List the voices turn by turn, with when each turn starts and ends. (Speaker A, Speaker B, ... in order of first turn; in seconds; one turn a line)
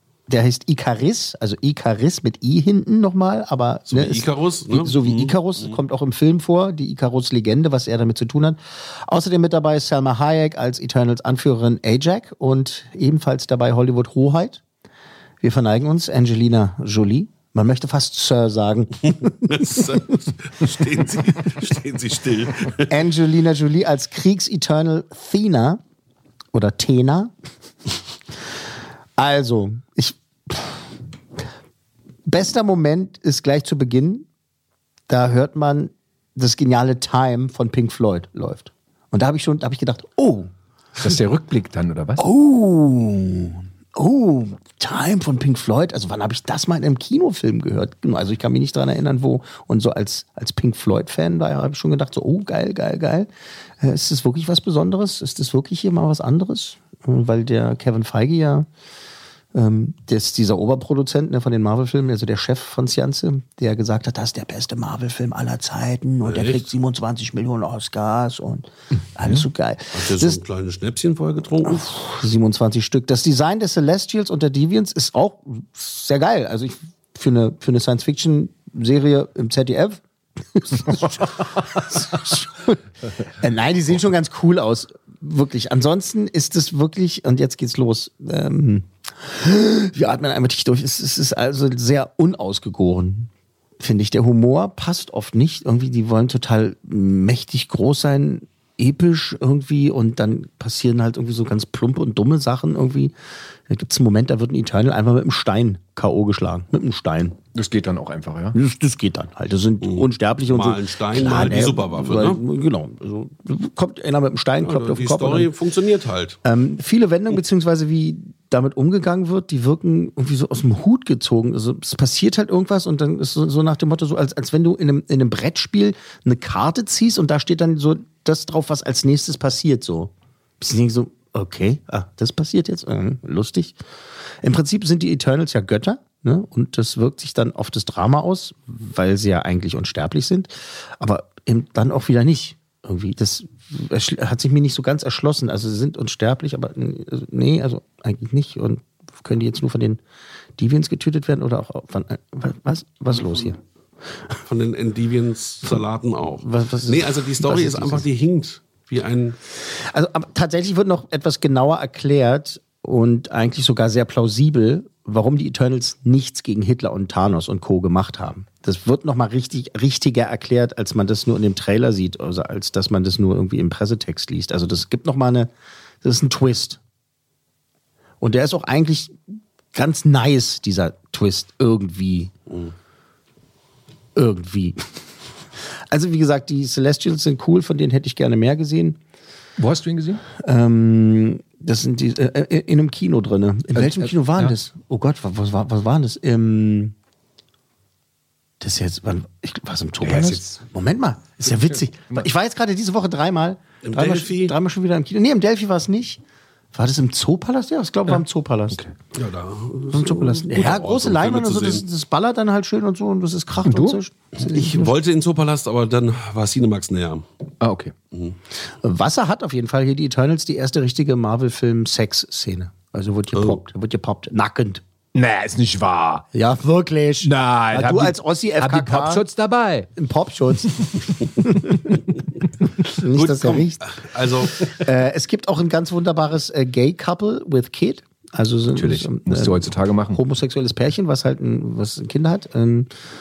Speaker A: 0.3-14.6
Speaker B: 3.9-5.8
Speaker A: 15.4-19.8
Speaker B: 19.4-22.9
Speaker A: 22.9-25.8
Speaker A: 26.5-27.3
Speaker A: 29.2-30.8
Speaker A: 32.3-34.2
Speaker A: 35.1-40.5
Speaker C: 41.0-42.2
Speaker A: 42.2-53.3
Speaker A: 53.8-58.7
Speaker A: 59.5-70.4
Speaker B: 66.2-66.6
Speaker B: 69.9-71.9
Speaker A: 71.7-80.0
Speaker A: 80.5-82.8
Speaker A: 83.4-103.1
Speaker A: 103.7-107.4
Speaker C: 107.5-108.6
Speaker A: 108.5-115.5
Speaker B: 109.8-112.4
Speaker B: 114.6-116.4
Speaker A: 116.4-133.8
Speaker A: 134.4-150.0
Speaker A: 150.6-153.6
Speaker B: 154.4-159.4
Speaker A: 156.4-158.1
Speaker A: 159.9-175.5
Speaker A: 176.0-176.8
Speaker A: 178.2-179.2
Speaker A: 179.7-182.3
Speaker A: 184.2-184.9
Speaker A: 185.9-189.0
Speaker C: 189.6-190.2
Speaker A: 190.4-196.9
Speaker C: 193.7-194.5
Speaker A: 198.6-206.2
Speaker C: 200.0-200.6
Speaker C: 201.4-202.3
Speaker B: 203.8-204.5
Speaker A: 206.7-208.8
Speaker B: 209.1-211.8
Speaker A: 209.9-214.9
Speaker C: 213.6-214.0
Speaker B: 214.4-217.2
Speaker C: 217.6-217.9
Speaker A: 218.8-224.8
Speaker B: 223.3-223.6
Speaker C: 225.1-226.3
Speaker A: 226.3-229.2
Speaker C: 227.2-229.9
Speaker A: 229.9-232.0
Speaker A: 232.9-233.8
Speaker B: 233.1-234.8
Speaker A: 234.7-242.9
Speaker C: 238.7-240.2